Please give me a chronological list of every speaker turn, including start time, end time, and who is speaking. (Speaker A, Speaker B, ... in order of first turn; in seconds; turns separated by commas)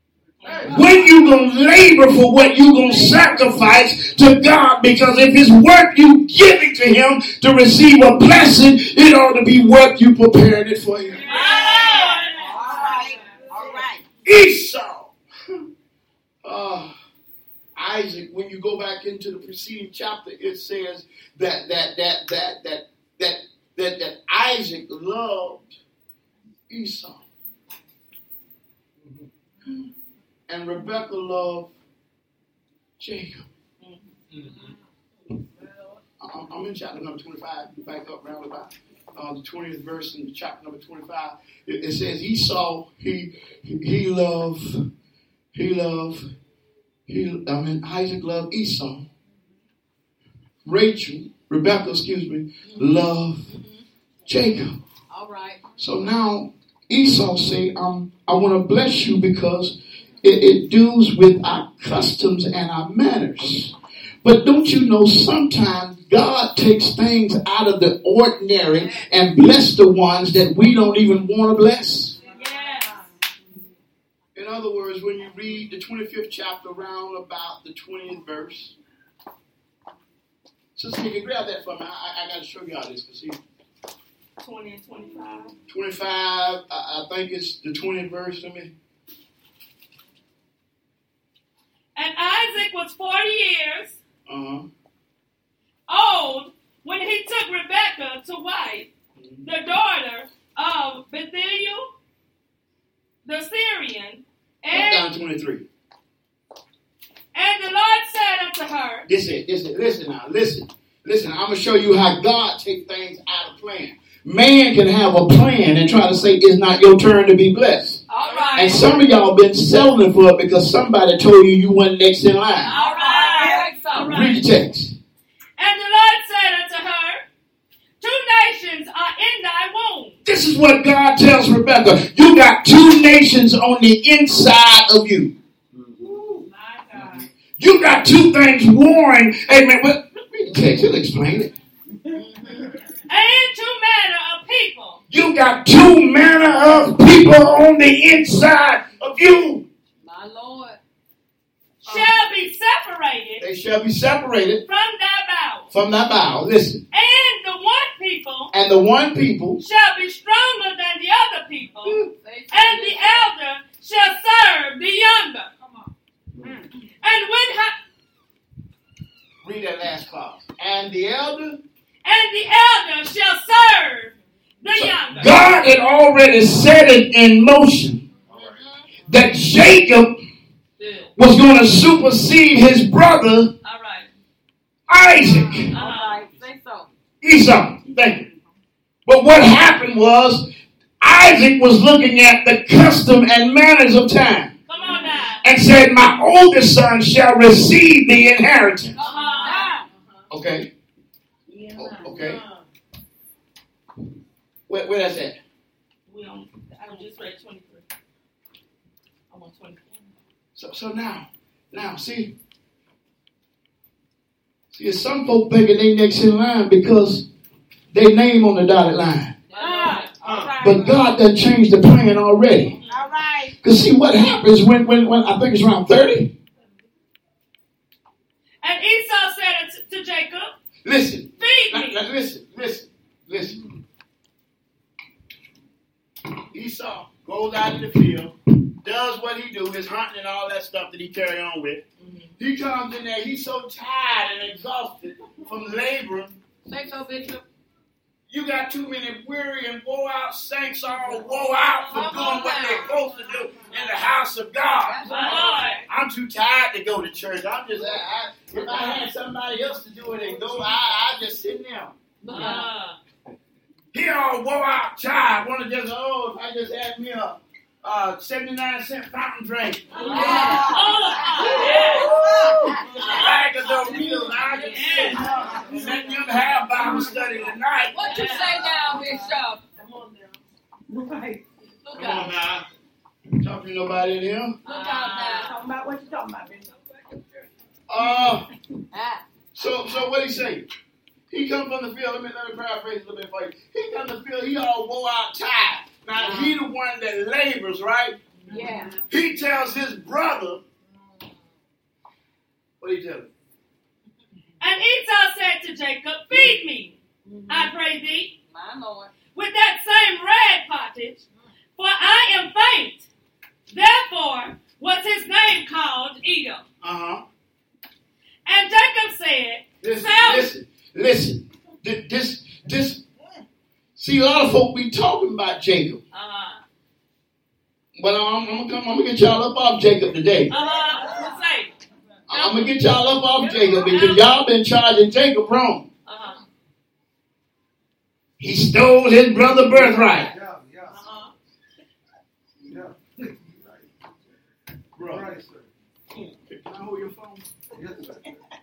Speaker A: 0.4-0.9, Speaker B: 0.5-0.9, Speaker C: 0.7-11.3, Speaker B: 11.2-13.4, Speaker D: 11.3-14.0, Speaker E: 12.5-13.0, Speaker C: 14.2-15.6, Speaker C: 16.4-16.9, Speaker C: 17.8-25.8, Speaker C: 26.7-27.2, Speaker C: 30.5-31.7, Speaker C: 33.0-33.5, Speaker A: 34.3-34.6, Speaker C: 36.2-44.9, Speaker C: 45.5-46.3, Speaker C: 47.1-49.1, Speaker C: 50.6-53.6, Speaker C: 54.3-54.8, Speaker E: 55.1-55.6, Speaker C: 55.8-72.2, Speaker B: 72.2-73.0, Speaker C: 74.3-78.8, Speaker C: 80.8-83.4, Speaker B: 84.4-85.5, Speaker C: 85.7-88.7, Speaker B: 92.0-94.0, Speaker C: 94.3-94.7, Speaker B: 95.9-98.9, Speaker C: 99.2-99.5, Speaker B: 99.4-101.9, Speaker B: 103.2-105.1, Speaker C: 104.7-105.7, Speaker B: 107.3-109.1, Speaker C: 109.0-122.7, Speaker E: 118.1-118.9, Speaker B: 118.2-118.7, Speaker B: 122.7-124.4, Speaker E: 122.7-124.1, Speaker D: 123.0-123.6, Speaker C: 124.1-125.0, Speaker B: 125.6-127.3, Speaker B: 128.0-130.2, Speaker C: 130.2-135.3, Speaker B: 136.4-137.3, Speaker C: 137.0-141.5, Speaker E: 142.1-142.7, Speaker B: 143.1-145.0, Speaker C: 145.1-149.7, Speaker E: 150.0-150.8, Speaker C: 151.8-152.2, Speaker B: 151.8-153.4, Speaker C: 153.4-154.6, Speaker B: 154.7-155.7, Speaker C: 155.7-156.8, Speaker B: 156.9-158.5, Speaker C: 158.5-159.6, Speaker B: 159.6-165.5, Speaker E: 162.2-163.3, Speaker B: 167.0-167.8, Speaker C: 169.4-171.6, Speaker B: 172.0-175.5, Speaker C: 174.7-178.1, Speaker A: 178.3-178.7, Speaker E: 178.3-178.8, Speaker C: 179.1-180.2, Speaker B: 180.8-181.1, Speaker C: 181.2-183.5, Speaker B: 183.6-184.1, Speaker C: 184.9-185.8, Speaker E: 185.5-186.9, Speaker B: 185.7-186.2, Speaker C: 187.2-188.3, Speaker C: 189.1-190.5, Speaker C: 191.0-194.5, Speaker B: 194.7-195.4, Speaker C: 195.4-199.0, Speaker E: 199.0-200.2, Speaker B: 199.0-199.8, Speaker C: 200.3-200.7, Speaker D: 201.5-202.4, Speaker C: 201.7-202.4, Speaker C: 204.7-205.4, Speaker B: 206.1-207.8, Speaker B: 209.3-210.1, Speaker C: 210.6-212.3, Speaker C: 214.7-217.3, Speaker C: 217.9-219.3, Speaker E: 219.5-220.2, Speaker D: 219.6-221.0, Speaker A: 220.2-220.6, Speaker C: 220.6-222.8, Speaker D: 222.9-223.2, Speaker C: 223.6-226.3, Speaker B: 228.6-230.6, Speaker C: 230.8-233.6, Speaker B: 231.4-232.0, Speaker C: 236.5-241.8, Speaker C: 242.4-246.4, Speaker E: 246.7-247.4, Speaker C: 248.3-255.1, Speaker E: 251.9-253.0, Speaker D: 252.1-252.8, Speaker E: 254.8-255.9, Speaker B: 255.0-255.8, Speaker C: 255.9-262.0, Speaker E: 262.2-262.7, Speaker B: 262.3-263.0, Speaker C: 263.9-270.6, Speaker B: 269.9-272.2, Speaker D: 270.0-273.1, Speaker E: 270.0-273.2, Speaker C: 272.2-278.1, Speaker B: 273.0-273.4, Speaker B: 274.6-275.5, Speaker E: 274.8-275.6, Speaker D: 274.8-275.9, Speaker E: 277.9-279.6, Speaker B: 278.1-278.7, Speaker D: 279.8-280.4, Speaker D: 280.9-281.4, Speaker E: 281.8-282.4, Speaker C: 281.9-282.3, Speaker A: 281.9-282.7, Speaker C: 283.4-284.6, Speaker E: 284.6-285.6, Speaker B: 284.6-285.6, Speaker D: 285.3-287.4, Speaker C: 287.9-288.5, Speaker E: 288.9-289.2, Speaker C: 289.5-290.7, Speaker C: 291.3-298.2, Speaker E: 296.2-296.6, Speaker E: 298.5-298.9, Speaker D: 298.5-298.9, Speaker C: 299.1-300.6, Speaker C: 302.8-303.3, Speaker B: 304.6-307.0, Speaker E: 307.2-307.7, Speaker B: 307.5-308.3, Speaker E: 308.5-309.1, Speaker B: 309.3-311.2, Speaker B: 311.8-313.1, Speaker B: 313.7-316.6, Speaker C: 316.8-317.2, Speaker B: 318.5-320.5, Speaker C: 319.8-323.0, Speaker C: 324.0-326.0, Speaker B: 326.1-326.6, Speaker C: 327.9-330.5, Speaker B: 330.5-331.7, Speaker C: 332.3-335.9, Speaker B: 332.3-332.7, Speaker B: 333.4-334.4, Speaker B: 336.1-336.4, Speaker C: 338.4-340.3, Speaker A: 339.7-341.0, Speaker A: 342.6-343.8, Speaker C: 344.9-345.3, Speaker A: 345.0-345.7, Speaker C: 346.2-347.5, Speaker A: 347.8-348.2